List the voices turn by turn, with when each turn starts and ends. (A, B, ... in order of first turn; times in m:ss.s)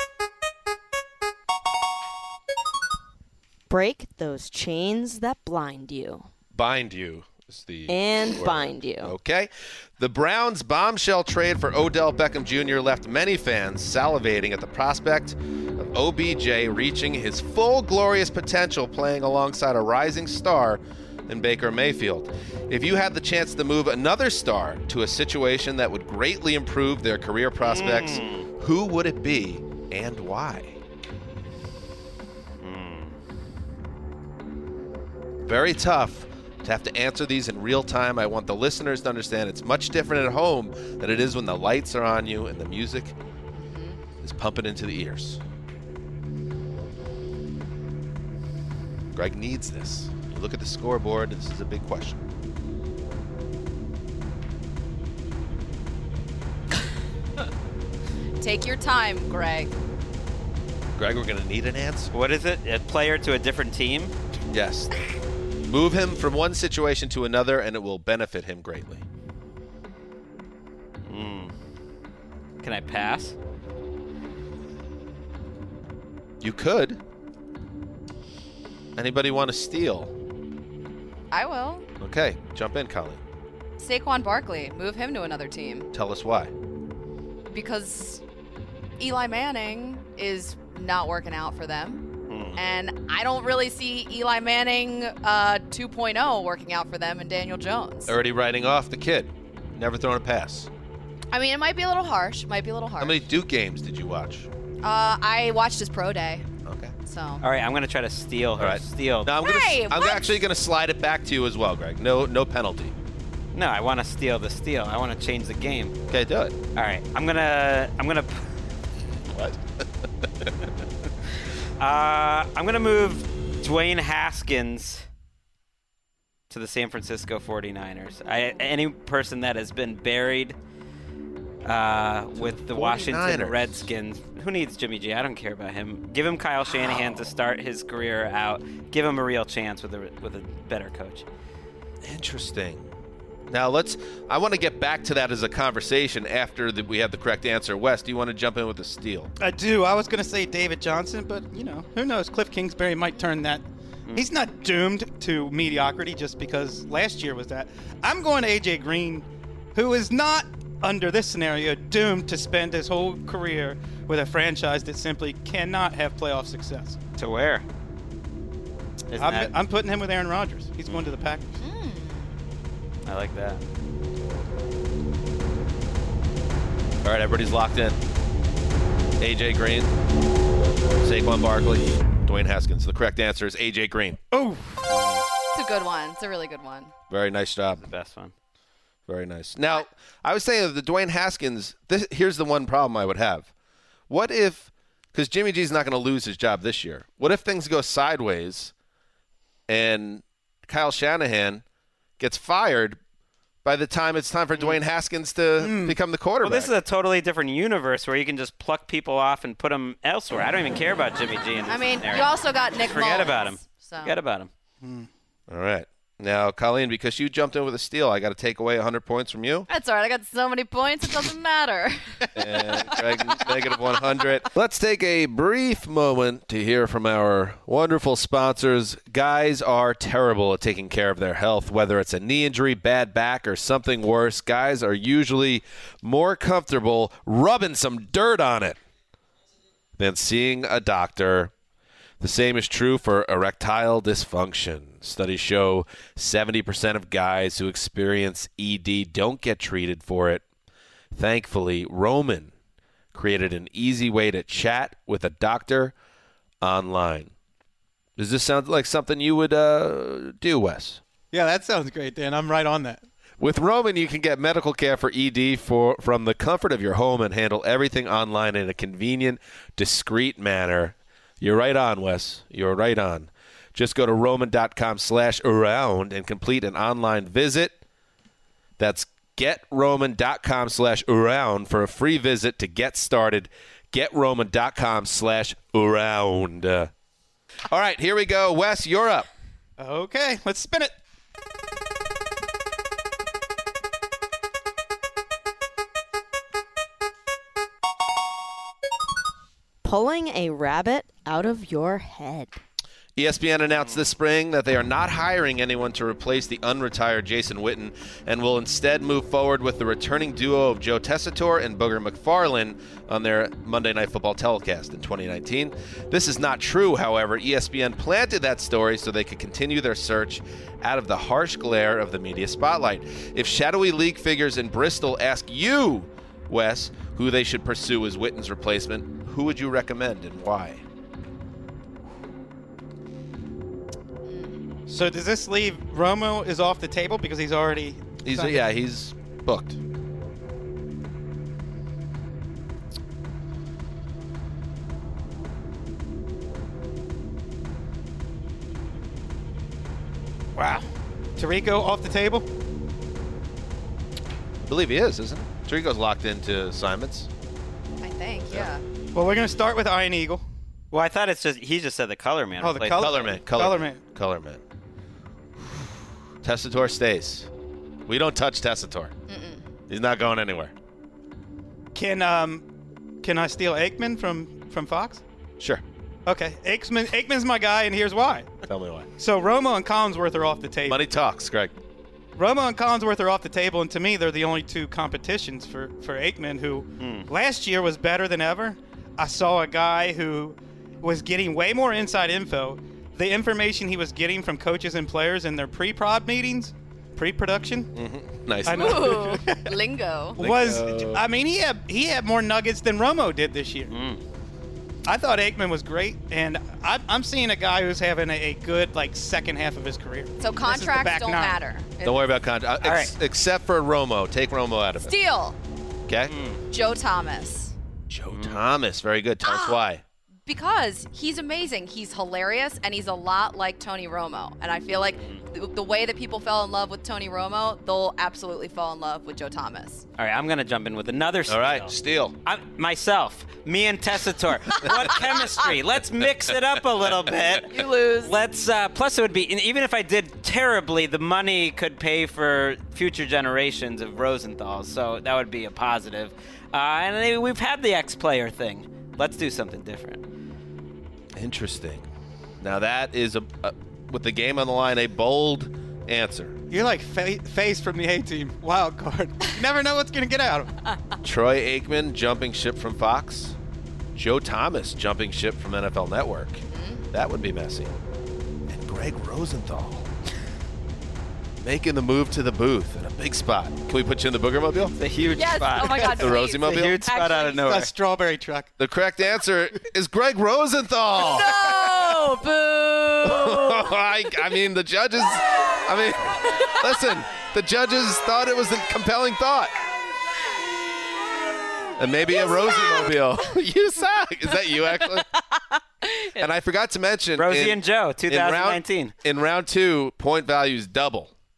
0:03.7-0:06.3 A
0:06.5-0:30.8 B
0:07.9-0:09.2 A
0:27.6-0:28.5 C
0:32.6-0:33.2 C
0:35.5-0:43.2 B
0:43.5-0:44.0 D
0:44.2-0:45.4 B
0:49.1-0:52.2 B
0:58.4-0:59.7 D
1:01.0-1:02.1 B
1:02.1-1:04.1 C
1:04.5-1:04.9 B
1:05.7-1:09.0 B
1:11.0-1:11.5 C
1:12.6-1:13.4 C
1:16.4-1:17.0 B
1:19.0-1:20.1 B
1:21.3-1:21.9 D
1:22.0-1:23.2 B
1:23.8-1:25.9 D
1:25.9-1:26.5 B
1:27.5-1:28.2 D
1:29.0-1:32.0 D
1:32.3-1:32.6 C
1:32.6-1:38.1 D
1:38.1-1:40.7 B
1:41.3-1:43.2 D
1:43.0-1:44.5 B
1:44.8-1:46.4 D
1:46.7-1:47.0 B
1:47.0-1:47.4 D
1:47.4-1:49.3 C
1:48.6-1:52.9 B
1:49.4-1:50.4 D
1:53.5-1:56.0 C
1:56.1-1:56.5 B
1:56.8-1:58.4 C
1:59.3-1:59.6 B
2:01.8-2:05.0 C
2:06.5-2:10.6 C
2:11.6-2:21.2 C
2:12.4-2:13.9 B
2:22.0-2:22.9 B
2:23.5-2:29.3 B
2:29.4-2:47.0 E
2:47.2-2:47.7 C
2:49.1-2:49.5 C
2:49.2-2:51.6 E
2:51.6-2:52.3 D
2:53.0-2:53.7 C
2:57.0-2:58.0 B
2:59.2-2:59.9 B
3:01.0-3:04.2 B
3:04.3-3:04.9 E
3:04.9-3:05.2 C
3:05.5-3:06.9 D
3:07.1-3:07.8 B
3:07.8-3:08.3 C
3:09.1-3:13.5 B
3:14.1-3:18.7 B
3:19.7-3:21.6 B
3:22.2-3:23.0 B
3:23.6-3:26.7 B
3:25.6-3:26.0 E
3:26.4-3:34.5 C
3:31.7-3:34.2 D
3:34.8-3:35.1 E
3:35.5-3:39.7 B
3:39.7-3:42.2 D
3:42.4-3:58.8 B
4:00.0-4:01.5 B
4:02.2-4:10.4 B
4:11.1-4:12.5 B
4:13.1-4:15.9 B
4:16.6-4:17.3 B
4:18.2-4:21.0 B
4:21.3-4:23.0 E
4:23.4-4:37.8 B
4:38.8-4:46.9 B
4:47.7-4:49.3 B
4:49.8-4:51.0 E
4:59.8-5:02.6 A
5:03.2-5:30.8 B
5:03.8-5:04.1 C
5:34.3-5:34.6 D
5:34.9-5:38.6 E
5:38.2-5:39.8 B
5:50.6-5:52.5 E
5:54.6-5:57.3 B
5:58.0-5:58.8 D
5:59.1-6:00.4 E
6:00.9-6:03.3 C
6:02.6-6:04.0 E
6:02.9-6:04.6 B
6:06.4-6:07.5 B
6:08.0-6:09.1 B
6:09.3-6:09.6 D
6:09.9-6:10.7 B
6:12.0-6:12.7 E
6:13.2-6:15.2 E
6:16.2-6:18.5 E
6:18.7-6:19.1 B
6:19.2-6:21.0 E
6:20.9-6:21.8 B
6:22.4-6:37.9 E
6:27.0-6:27.3 C
6:38.0-6:39.3 B
6:38.6-6:39.8 E
6:38.7-6:40.4 D
6:40.4-6:43.9 E
6:40.4-6:41.2 B
6:43.9-6:44.2 C
6:45.0-6:51.6 E
6:50.4-6:52.2 D
6:52.0-6:55.1 B
6:52.8-6:53.1 C
6:55.0-6:55.6 D
6:56.1-6:56.4 B
6:56.3-6:56.6 C
6:56.7-6:57.7 D
6:58.1-7:00.0 B
6:58.3-6:58.6 C
6:59.4-6:59.8 D
7:00.5-7:10.0 D
7:10.2-7:11.9 C
7:11.5-7:12.4 B
7:12.4-7:30.2 C
7:14.8-7:15.1 B
7:17.7-7:18.4 D
7:31.4-7:32.1 B
7:32.6-7:36.6 B
7:36.7-7:40.7 E
7:41.2-7:43.6 B
7:44.2-7:48.0 B
7:46.7-7:47.0 D
7:48.7-7:50.1 B
7:51.6-7:55.0 B
7:55.0-7:57.9 C
7:55.3-7:57.7 D
7:56.2-7:57.1 B
7:57.5-7:58.7 E
7:58.8-8:01.6 B
8:01.2-8:03.9 D
8:03.2-8:09.7 B
8:12.0-8:15.3 B
8:12.3-8:13.3 D
8:15.1-8:16.5 D
8:16.4-8:21.3 B
8:17.4-8:19.1 C